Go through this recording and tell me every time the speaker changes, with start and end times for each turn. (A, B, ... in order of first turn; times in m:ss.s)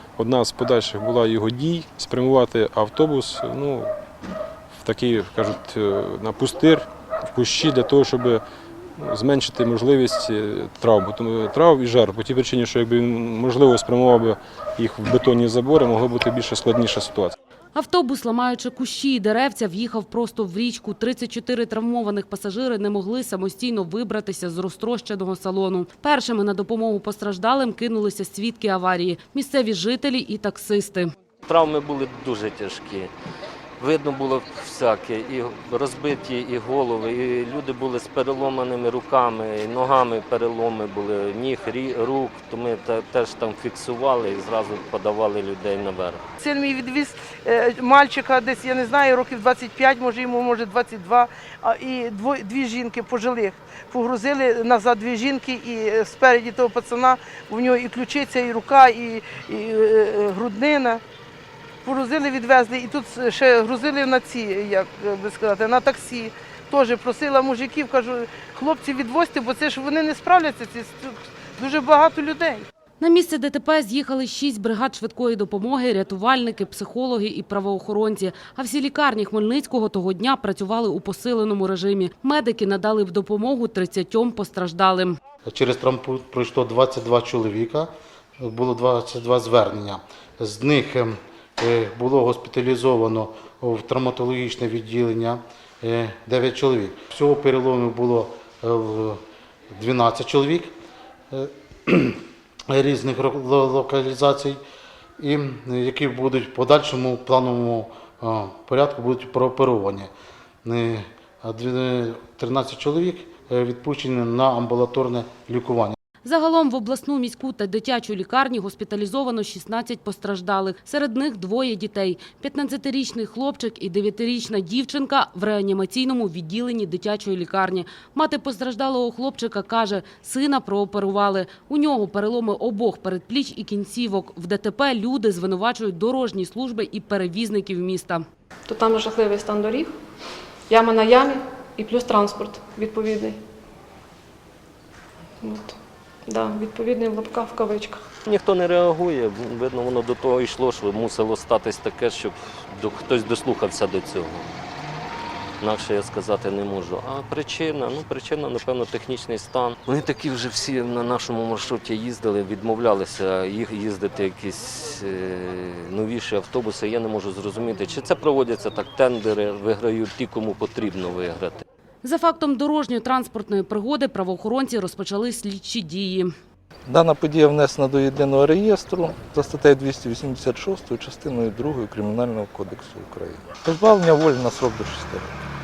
0:00.2-0:04.0 A
0:04.8-0:08.4 A
0:09.0-0:17.4 A
0:17.8-0:31.1 B
0:31.5-0:33.1 C
0:33.8-0:46.2 C
0:46.4-1:01.0 D
1:01.8-1:12.7 D
1:13.0-1:25.2 B
1:25.4-1:39.2 E
1:39.7-1:40.7 E
1:41.3-1:44.6 E
1:45.2-1:50.1 E
1:50.6-1:56.0 E
1:56.2-2:18.2 B
2:18.7-2:20.0 F
2:20.7-2:23.4 F
2:25.4-2:28.1 F
2:28.2-2:34.5 C
2:35.6-2:51.6 C
2:52.0-2:56.3 B
2:56.8-3:05.4 G